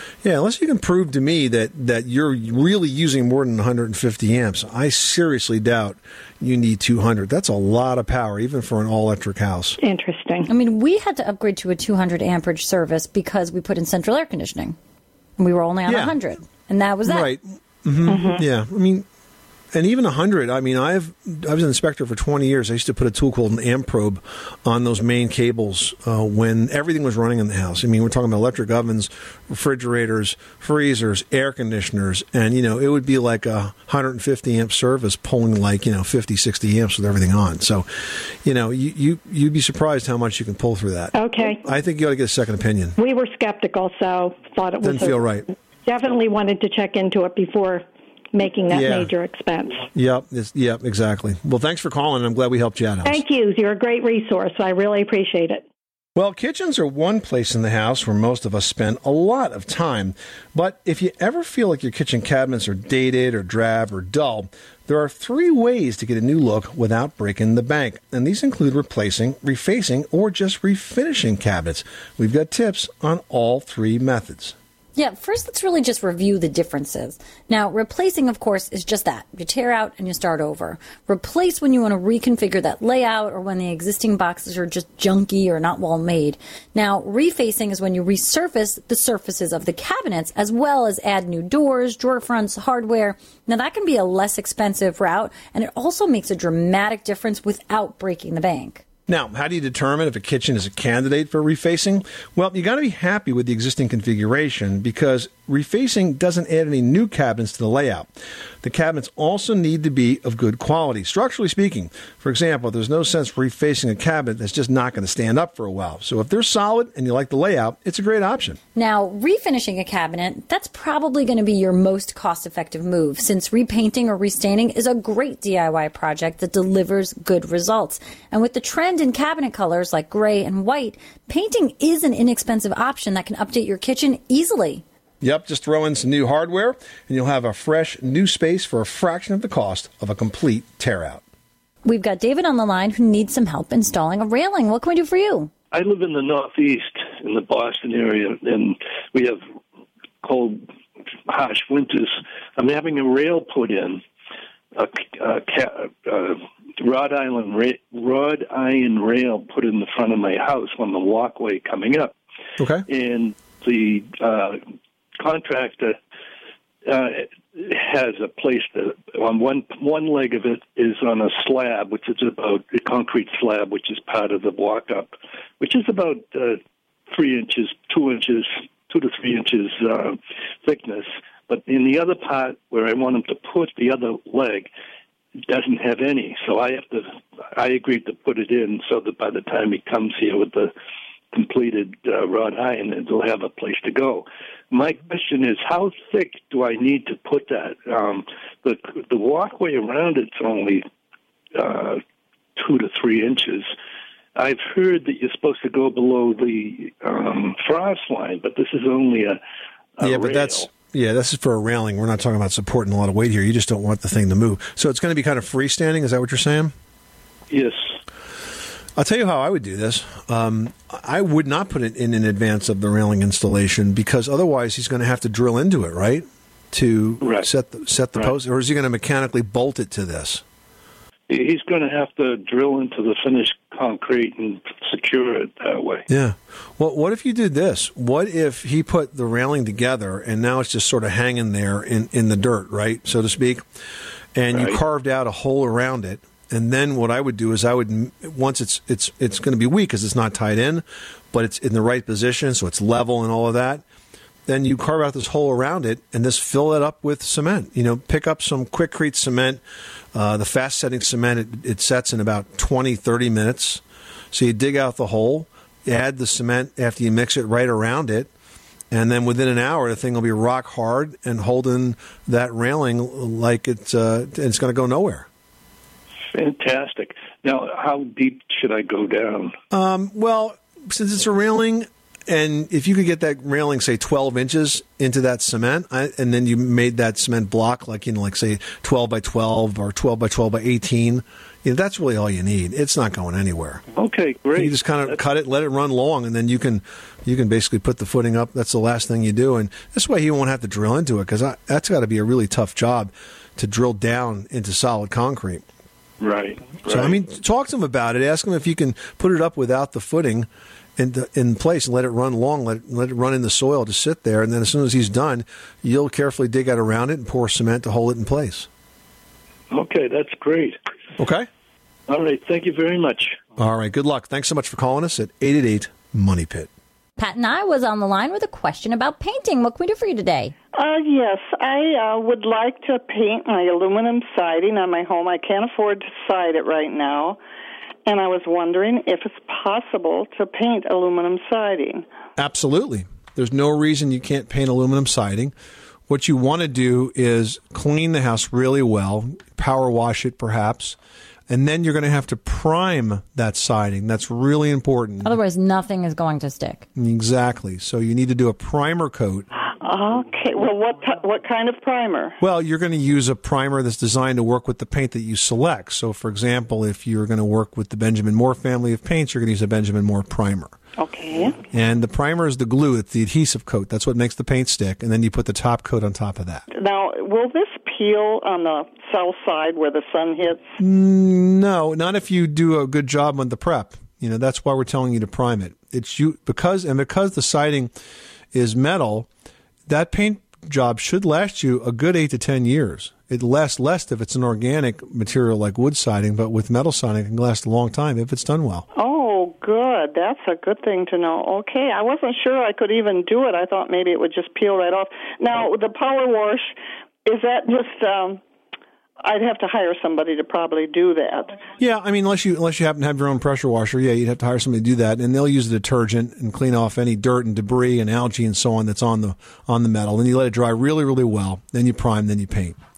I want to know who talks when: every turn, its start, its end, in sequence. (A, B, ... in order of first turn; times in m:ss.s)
0:00.2-0:09.8 A
0:09.8-0:10.5 B
0:10.5-0:14.8 C
0:15.4-0:17.3 C
0:15.9-0:16.2 A
0:17.0-0:19.1 A
0:18.0-0:18.4 B
0:19.7-0:43.0 A
0:41.1-0:41.6 B
0:43.0-0:45.3 B
0:44.8-0:45.4 A
0:45.8-0:49.8 B
0:48.7-0:49.1 A
0:49.9-0:53.2 A
0:53.0-0:55.6 B
0:56.2-1:14.5 A
1:15.0-1:38.8 C
1:39.1-1:48.1 A
1:48.6-1:58.6 A
1:58.8-2:14.8 C
2:15.2-2:21.2 A
2:21.8-2:25.5 C
2:25.7-2:29.4 D
2:30.2-2:30.6 D
2:31.3-2:34.0 D
2:34.7-2:42.1 D
2:42.6-2:42.8 A
2:42.9-2:44.6 D
2:45.2-2:46.0 D
2:46.9-3:04.7 D
3:05.5-3:10.7 D
3:11.3-3:20.8 D
3:21.6-3:22.0 D
3:22.6-3:23.7 D
3:24.4-3:29.4 D
3:30.0-3:30.7 D
3:30.0-3:36.7 A
3:37.5-3:37.9 D
3:39.0-3:50.4 A
3:47.2-3:47.5 D
3:51.3-3:56.0 D
3:56.1-4:03.6 A
4:04.3-4:13.8 A
4:04.5-4:04.8 D
4:14.5-4:19.6 A
4:20.1-4:28.3 A
4:28.9-4:35.3 A
4:36.3-4:39.5 D
4:39.7-4:53.8 A
4:53.9-4:55.2 D
4:54.5-5:05.6 A
5:06.2-5:07.2 D
5:06.9-5:18.7 A
5:19.7-5:20.8 D
5:21.2-5:21.5 A
5:22.1-5:23.4 D
5:23.6-5:26.7 A
5:27.2-5:30.5 C
5:30.7-5:37.4 E
5:38.0-5:42.0 E
5:42.4-5:45.5 A
5:46.1-5:51.0 A
5:51.5-5:55.4 A
5:55.2-5:56.9 C
5:56.9-5:59.5 A
5:59.8-6:02.4 E
6:02.4-6:10.8 A
6:11.0-6:11.6 E
6:11.7-6:16.6 A
6:16.7-6:20.7 E
6:20.8-6:27.9 A
6:28.5-6:29.3 A
6:29.9-6:38.9 A
6:39.0-6:46.7 E
6:47.2-6:48.4 E
6:49.2-6:51.6 E
6:51.8-7:02.8 A